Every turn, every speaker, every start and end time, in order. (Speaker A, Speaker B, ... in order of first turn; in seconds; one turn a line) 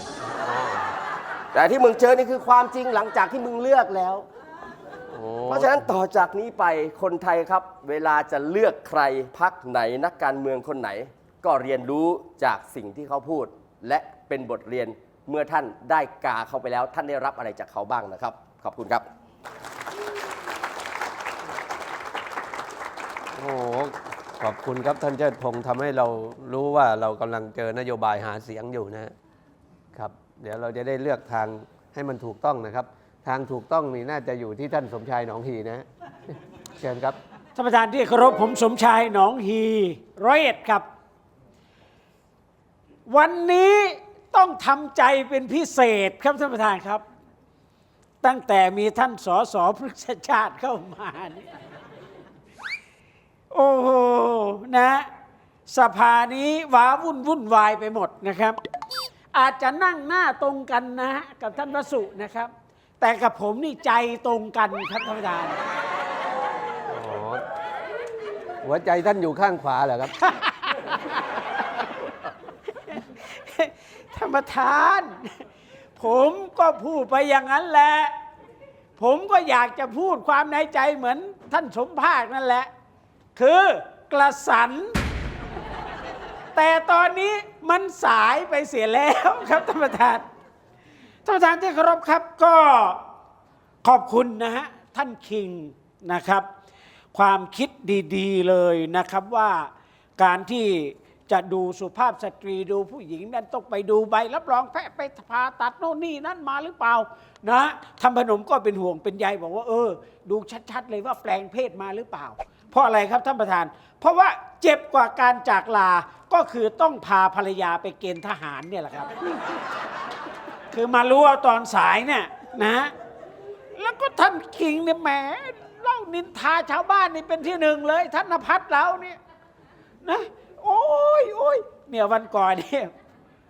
Speaker A: 0.4-0.9
Speaker B: 1.5-4.2
Speaker A: 5.1-5.9
Speaker B: 5.5-19.0
Speaker A: 23.4-29.1
Speaker A: 29.9-35.9
Speaker A: 36.8-37.2
Speaker C: 37.5-40.9
Speaker C: 43.1-47.0
Speaker C: 48.2-51.5
Speaker C: 53.5-55.1
Speaker C: 55.7-58.6
Speaker C: 59.3-65.6
Speaker A: 66.9-67.4
Speaker A: 68.6-70.1
Speaker C: 70.2-71.1
Speaker C: 72.9-75.4
Speaker C: 76.0-78.1
Speaker C: 79.0-82.7
Speaker C: 83.3-85.0
Speaker C: 86.5-90.2
Speaker C: 91.2-93.0
Speaker C: 93.8-96.5
Speaker C: 97.1-119.2
Speaker C: 120.7-122.9
Speaker C: 123.8-129.2
Speaker C: 130.0-132.9